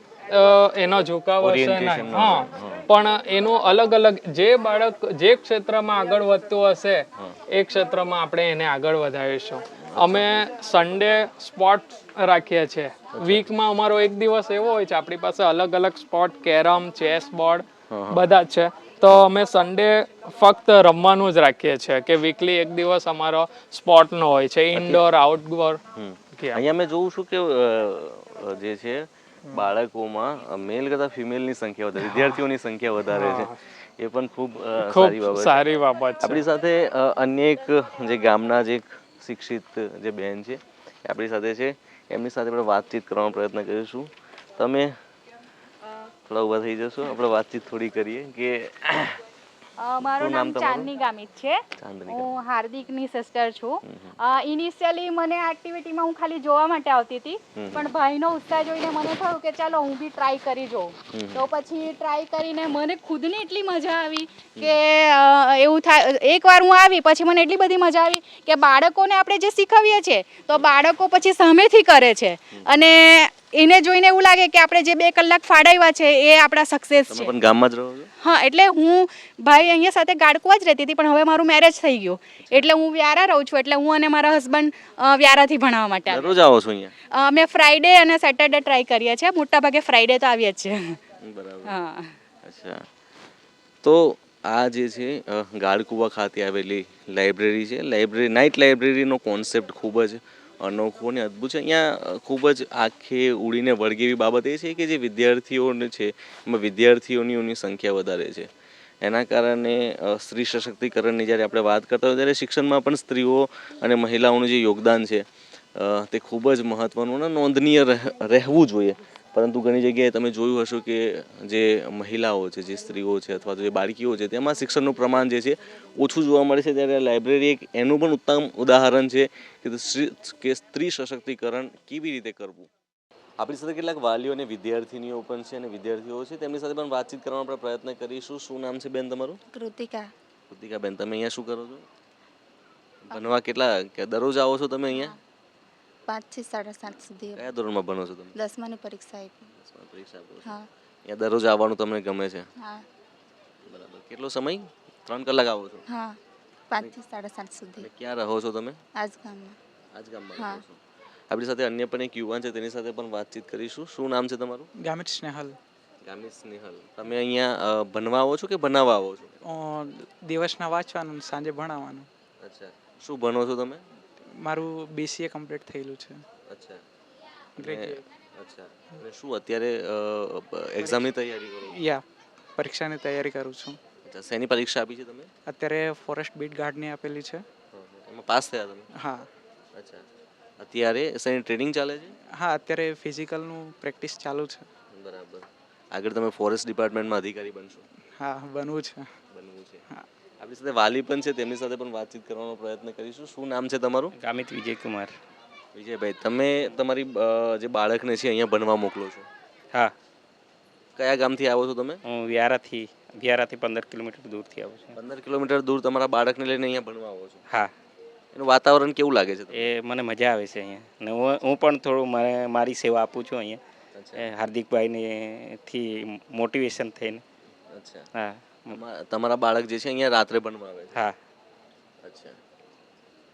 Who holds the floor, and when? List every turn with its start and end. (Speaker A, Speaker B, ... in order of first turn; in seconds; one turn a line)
Speaker A: 0.3-25.8
Speaker B: 1.4-2.9
Speaker B: 9.8-10.3
Speaker B: 13.2-13.5
Speaker B: 17.9-18.3
Speaker B: 24.7-25.0
Speaker B: 26.0-35.6
Speaker A: 26.3-26.6
Speaker A: 32.0-32.4
Speaker A: 33.1-33.6
Speaker A: 34.8-36.4
Speaker B: 36.2-45.0
Speaker B: 46.3-49.2
Speaker C: 49.8-77.3
Speaker B: 50.2-50.9
Speaker B: 51.8-52.4
Speaker B: 53.9-54.1
Speaker B: 57.6-57.8
Speaker B: 61.1-61.4
Speaker B: 77.1-78.1
Speaker C: 78.2-86.3
Speaker B: 86.1-86.9
Speaker C: 87.2-91.0
Speaker B: 91.2-91.8
Speaker C: 91.7-92.1
Speaker B: 92.4-92.8
Speaker B: 93.8-108.5
Speaker B: 109.0-132.7
Speaker B: 133.4-139.4
Speaker D: 139.5-140.1
Speaker B: 140.5-141.8
Speaker B: 143.1-145.2
Speaker D: 144.9-145.2
Speaker D: 146.1-147.5
Speaker B: 147.3-148.4
Speaker D: 148.3-149.5
Speaker B: 149.6-152.5
Speaker B: 153.7-155.9
Speaker D: 155.9-156.2
Speaker D: 156.7-157.9
Speaker B: 157.8-158.8
Speaker D: 159.0-159.6
Speaker B: 159.9-160.8
Speaker D: 160.4-160.6
Speaker B: 161.3-164.7
Speaker E: 164.8-165.6
Speaker B: 166.0-169.4
Speaker E: 169.4-172.1
Speaker B: 172.4-173.8
Speaker E: 174.4-176.2
Speaker B: 176.5-176.8
Speaker E: 177.6-178.0
Speaker B: 177.6-181.8
Speaker E: 180.8-181.1
Speaker E: 181.7-182.0
Speaker E: 182.6-183.8
Speaker B: 184.1-185.3
Speaker E: 185.5-187.4
Speaker B: 187.7-188.9
Speaker E: 189.0-189.3
Speaker B: 189.8-190.0
Speaker B: 190.6-192.2
Speaker E: 192.4-194.7
Speaker B: 194.9-197.8
Speaker E: 198.2-199.1
Speaker B: 199.3-199.8
Speaker B: 200.4-204.1
Speaker F: 204.2-205.1
Speaker B: 205.7-209.3
Speaker B: 211.0-212.0
Speaker F: 212.0-215.0
Speaker B: 214.9-217.4
Speaker B: 218.3-219.7
Speaker F: 219.5-223.6
Speaker B: 223.9-224.3
Speaker F: 224.2-227.2
Speaker B: 227.7-228.1
Speaker F: 228.1-228.8
Speaker B: 228.7-231.0
Speaker B: 232.0-232.4